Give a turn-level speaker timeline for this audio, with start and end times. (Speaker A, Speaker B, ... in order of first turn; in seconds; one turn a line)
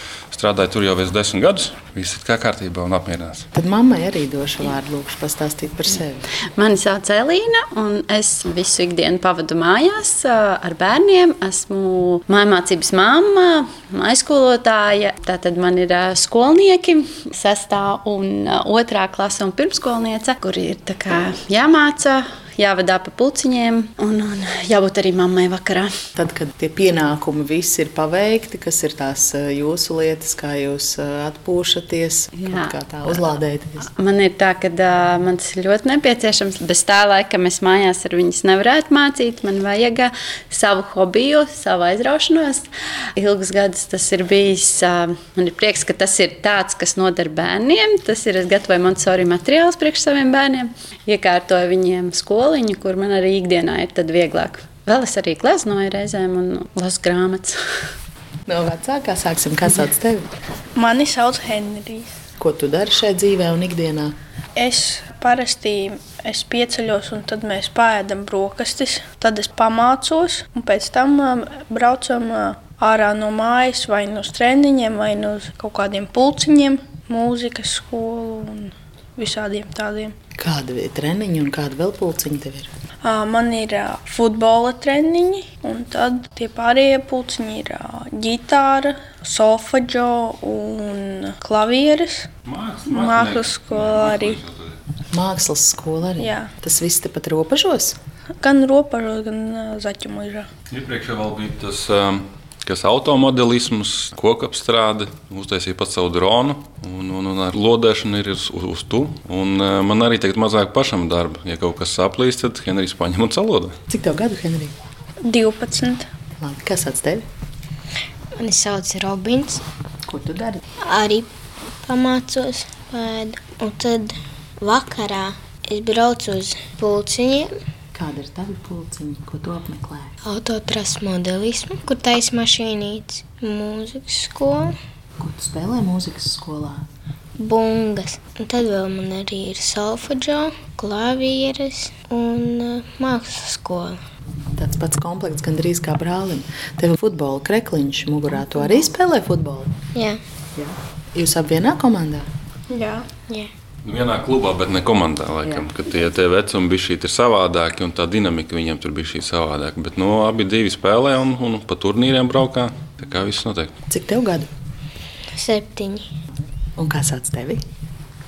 Speaker A: 0.3-3.5
Speaker B: 3.5-6.3
Speaker C: 6.5-25.9
Speaker B: 26.1-33.9
Speaker C: 32.3-33.2
Speaker C: 33.8-57.6
Speaker B: 58.5-60.3
Speaker D: 60.8-62.1
Speaker B: 62.4-64.1
Speaker D: 64.5-80.1
Speaker B: 80.4-82.7
Speaker D: 83.0-92.3
Speaker A: 92.5-94.8
Speaker D: 92.8-94.4
Speaker B: 95.1-98.0
Speaker D: 96.2-96.5
Speaker D: 98.4-100.5
Speaker A: 100.7-113.8
Speaker B: 113.9-114.7
Speaker D: 115.2-116.0
Speaker B: 116.4-117.2
Speaker E: 118.4-119.6
Speaker B: 120.0-120.6
Speaker E: 120.8-121.3
Speaker E: 121.8-127.5
Speaker B: 127.9-130.1
Speaker E: 130.2-134.7
Speaker B: 135.2-136.8
Speaker E: 137.4-144.0
Speaker B: 144.5-149.7
Speaker E: 149.9-150.2
Speaker B: 150.5-152.3
Speaker D: 152.7-153.1
Speaker A: 153.8-163.7
Speaker B: 163.9-164.5
Speaker E: 165.3-166.1
Speaker B: 166.8-167.6